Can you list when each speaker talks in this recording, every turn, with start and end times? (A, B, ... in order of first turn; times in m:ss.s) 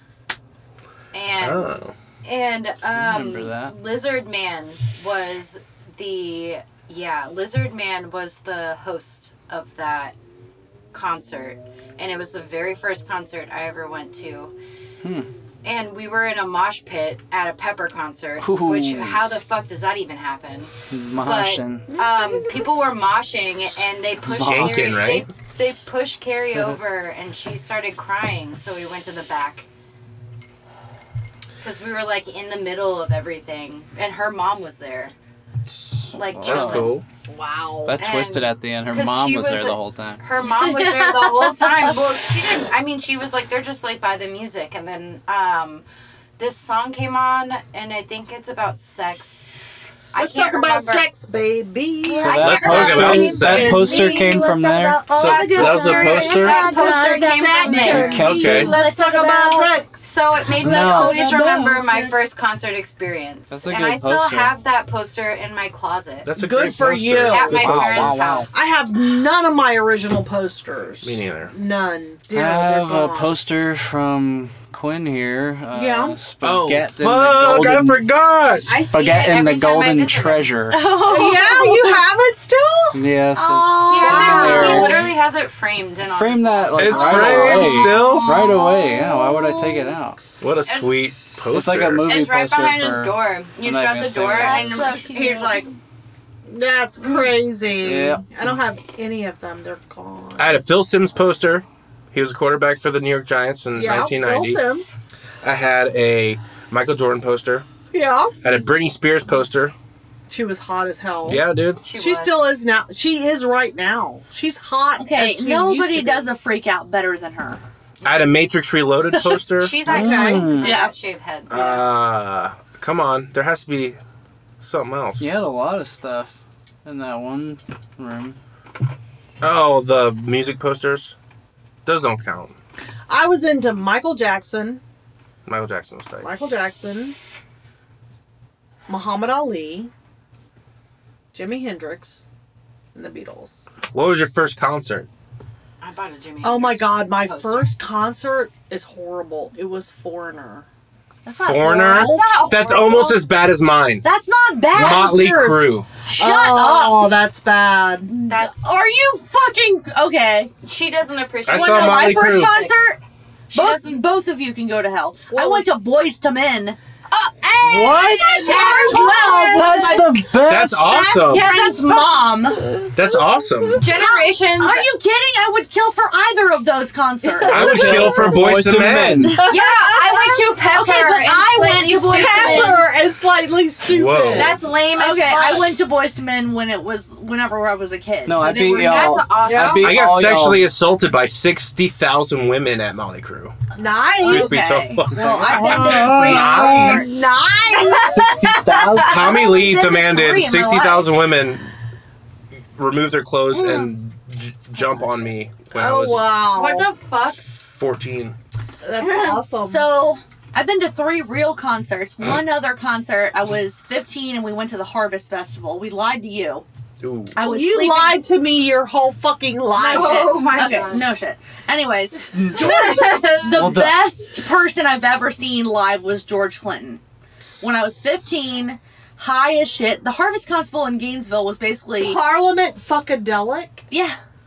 0:01.1-0:01.7 A
0:01.4-0:01.9 B
0:02.2-0:10.1 A
0:02.9-0:03.7 C
0:10.9-0:14.5 A
0:15.0-0:15.3 C
0:15.6-0:29.6 A
0:18.4-0:19.2 C
0:20.9-0:21.9 C
0:21.9-0:22.6 D
0:24.2-0:25.0 C
0:24.2-0:25.3 B
0:31.6-0:35.1 A
0:36.1-0:37.0 A
0:36.3-0:37.0 C
0:36.4-0:37.0 B
0:37.3-0:38.0 D
0:37.8-0:40.2 C
0:38.0-0:45.8 A
0:40.6-0:42.0 E
0:46.4-0:49.5 A
0:50.1-0:51.1 A
0:50.2-1:00.0 D
0:52.1-0:54.4 E
0:52.1-0:53.8 A
0:52.2-0:55.0 C
0:52.3-0:54.0 B
0:55.1-0:59.8 E
0:55.2-0:56.7 B
0:55.5-0:58.3 A
0:57.9-0:58.6 C
0:58.2-0:58.7 B
1:00.0-1:06.3 A
1:00.6-1:01.3 C
1:00.6-1:02.1 E
1:01.1-1:01.4 D
1:03.5-1:04.5 C
1:06.2-1:08.2 B
1:06.4-1:07.7 D
1:07.3-1:08.7 A
1:07.5-1:08.5 C
1:08.5-1:13.3 D
1:11.0-1:11.5 B
1:12.3-1:18.0 C
1:15.7-1:16.2 D
1:16.4-1:18.7 B
1:18.6-1:22.0 A
1:18.9-1:20.8 C
1:21.0-1:23.0 D
1:22.9-1:25.1 C
1:23.3-1:25.1 E
1:23.9-1:29.6 A
1:24.0-1:25.1 D
1:26.1-1:30.2 C
1:26.8-1:28.3 B
1:27.4-1:28.9 E
1:30.4-1:32.1 B
1:30.6-1:31.0 A
1:31.5-1:35.0 C
1:32.1-1:35.7 A
1:34.3-1:35.7 E
1:36.4-1:40.6 D
1:37.8-1:38.6 C
1:40.4-1:44.6 B
1:43.7-1:44.9 D
1:45.4-1:47.6 B
1:47.9-1:48.3 D
1:48.4-1:49.7 B
1:50.3-1:56.3 D
1:51.2-1:51.8 B
1:51.8-1:52.5 A
1:55.0-1:57.6 E
1:58.0-1:59.8 B
1:59.5-2:01.9 A
1:59.8-2:00.5 D
1:59.9-2:00.8 C
2:00.4-2:00.9 E
2:01.5-2:04.0 B
2:04.6-2:05.3 B
2:05.2-2:08.4 C
2:09.4-2:11.1 B
2:11.8-2:12.5 B
2:13.1-2:14.8 D
2:15.4-2:16.3 B
2:16.2-2:17.2 D
2:18.9-2:19.9 D
2:21.3-2:22.2 D
2:22.9-2:23.6 D
2:23.9-2:25.1 B
2:25.8-2:27.7 A
2:26.4-2:30.6 D
2:31.2-2:33.1 E
2:31.3-2:34.0 B
2:31.6-2:33.2 D
2:34.0-2:35.3 E
2:34.7-2:35.9 B
2:34.7-2:38.1 D
2:36.0-2:37.2 E
2:38.1-2:40.5 E
2:38.3-2:38.7 A
2:40.6-2:42.8 A
2:41.5-2:42.6 B
2:41.5-2:43.0 E
2:43.5-2:46.8 E
2:43.5-2:44.0 A
2:45.3-2:45.7 D
2:47.1-2:49.5 A
2:47.6-2:50.0 D
2:47.6-2:52.8 E
2:47.6-2:48.6 C
2:49.2-2:51.0 C
2:50.4-2:51.5 B
2:51.3-2:52.2 A
2:52.8-2:54.1 D
2:52.9-2:53.8 B
2:53.8-2:54.9 A
2:53.9-2:57.9 E
2:57.3-2:58.4 D
2:57.4-2:59.3 B
2:57.5-2:59.4 C
2:59.4-3:00.4 D
2:59.4-3:02.8 A
2:59.9-3:02.8 E
3:01.9-3:04.6 D
3:03.8-3:04.6 B
3:04.3-3:05.5 A
3:04.6-3:09.2 E
3:05.2-3:05.7 D
3:08.2-3:10.7 C
3:08.4-3:09.9 A
3:09.3-3:10.0 D
3:09.8-3:13.6 B
3:13.7-3:18.6 D
3:14.2-3:17.3 E
3:14.2-3:17.1 B
3:14.8-3:17.1 C
3:15.6-3:16.9 A
3:17.7-3:18.4 A
3:17.9-3:21.1 E
3:18.3-3:19.3 C
3:19.0-3:21.7 B
3:22.8-3:26.3 B
3:23.5-3:23.9 E
3:25.7-3:26.9 D
3:26.3-3:27.4 A
3:27.2-3:28.4 B
3:28.8-3:29.9 D
3:29.0-3:36.6 E
3:37.0-3:37.3 B
3:37.4-3:38.2 E
3:37.4-3:40.5 D
3:39.8-3:41.1 A
3:39.8-3:47.0 E
3:42.3-3:42.8 C
3:43.4-3:44.0 C
3:47.6-3:52.2 E
3:52.0-3:53.8 D
3:53.9-3:54.2 E